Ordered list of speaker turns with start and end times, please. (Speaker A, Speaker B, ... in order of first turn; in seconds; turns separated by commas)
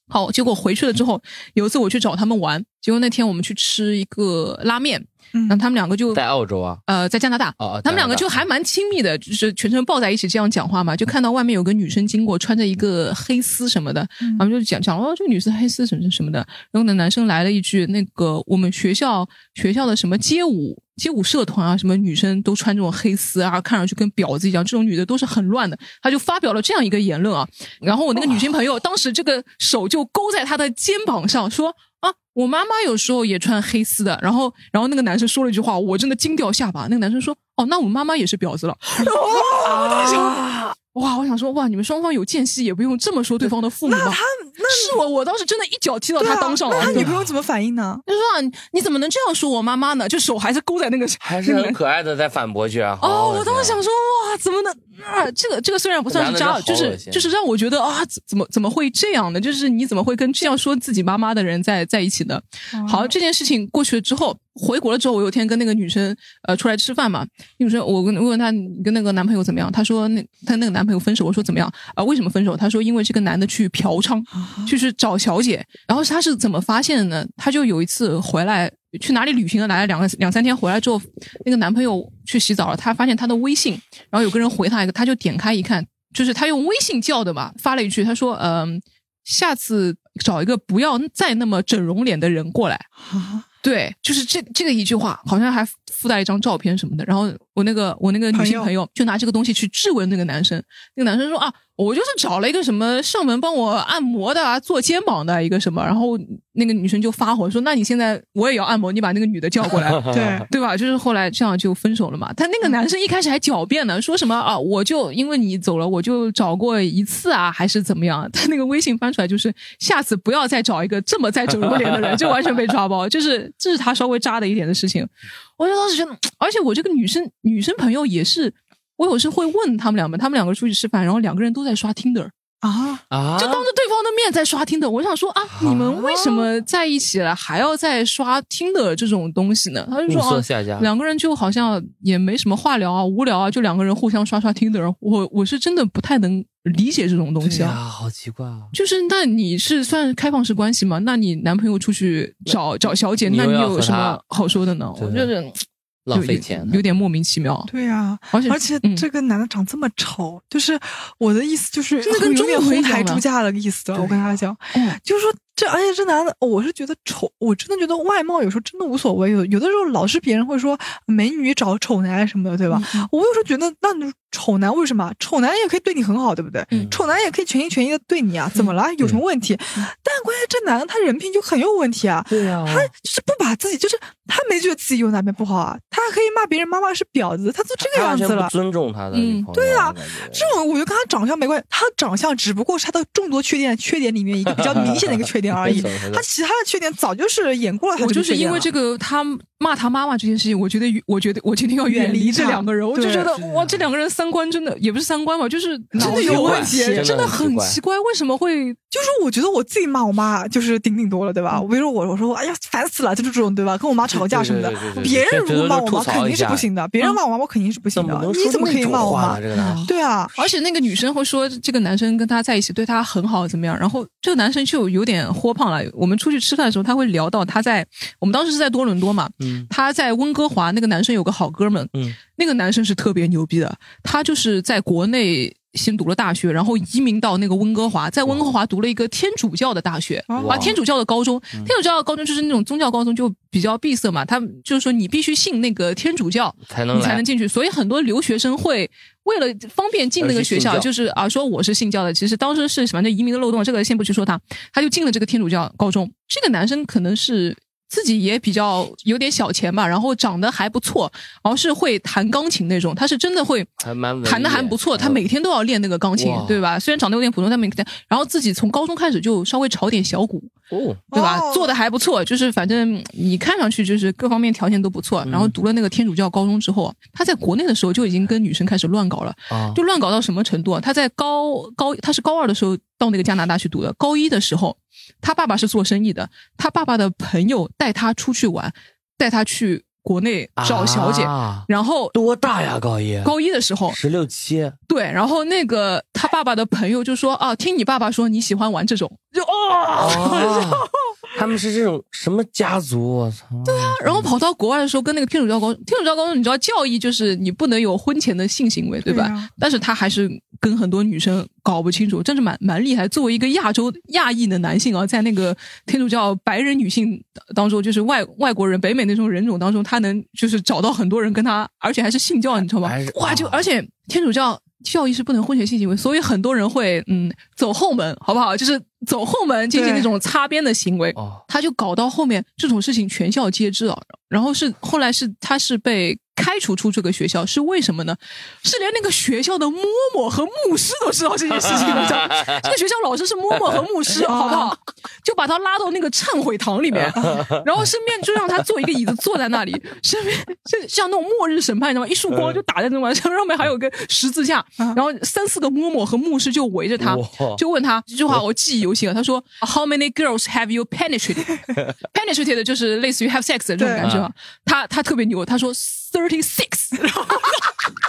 Speaker A: 0.1-6.2, Speaker B: 5.3-5.6, Speaker C: 6.1-6.8, Speaker A: 6.9-47.1, Speaker C: 7.6-8.4, Speaker B: 14.2-14.5, Speaker B: 39.0-40.4, Speaker B: 43.9-45.0, Speaker B: 46.2-48.0, Speaker C: 46.8-47.3, Speaker A: 48.1-51.8, Speaker C: 51.2-53.8, Speaker A: 53.0-92.9, Speaker C: 56.1-57.3, Speaker B: 62.7-63.1, Speaker B: 74.4-74.7, Speaker B: 93.0-93.5, Speaker A: 93.6-132.3, Speaker B: 98.3-98.7, Speaker C: 109.9-110.4, Speaker B: 110.1-110.5, Speaker B: 132.6-133.0, Speaker C: 133.1-133.7, Speaker A: 133.4-147.8, Speaker C: 135.6-136.5, Speaker C: 140.1-140.9, Speaker C: 147.4-148.7, Speaker A: 148.7-157.7, Speaker C: 153.2-154.2, Speaker C: 155.0-155.3, Speaker C: 156.1-156.8, Speaker B: 157.7-188.5, Speaker A: 158.3-159.1, Speaker A: 162.0-163.2, Speaker C: 163.9-164.3, Speaker A: 172.7-173.1, Speaker C: 176.7-177.0, Speaker C: 182.3-182.9, Speaker C: 187.8-190.6, Speaker A: 189.1-189.5, Speaker B: 189.6-198.7, Speaker C: 194.6-196.2, Speaker A: 198.0-208.8, Speaker B: 201.9-203.3, Speaker B: 205.9-207.1, Speaker C: 206.0-207.8, Speaker B: 208.9-220.3, Speaker C: 214.1-216.7, Speaker C: 217.9-219.9, Speaker A: 219.6-263.7, Speaker C: 229.4-229.7, Speaker B: 240.3-240.7, Speaker C: 240.3-240.8, Speaker C: 246.7-247.2, Speaker C: 250.2-250.9, Speaker C: 263.8-265.2, Speaker A: 264.2-270.5, Speaker C: 266.2-266.6, Speaker C: 270.7-271.0, Speaker B: 271.1-271.7, Speaker A: 271.1-292.1, Speaker C: 275.2-275.5, Speaker C: 279.5-279.8, Speaker C: 290.6-293.3, Speaker A: 293.2-294.0, Speaker C: 293.9-294.8, Speaker A: 294.9-300.9, Speaker C: 299.9-304.3, Speaker A: 303.6-367.7, Speaker B: 309.1-309.5, Speaker C: 322.8-323.6, Speaker B: 329.7-330.1, Speaker C: 331.2-331.4, Speaker C: 341.7-342.7, Speaker B: 344.2-344.7, Speaker C: 347.1-347.6, Speaker C: 352.3-352.6, Speaker C: 357.0-357.6, Speaker B: 363.8-364.1, Speaker C: 364.0-364.3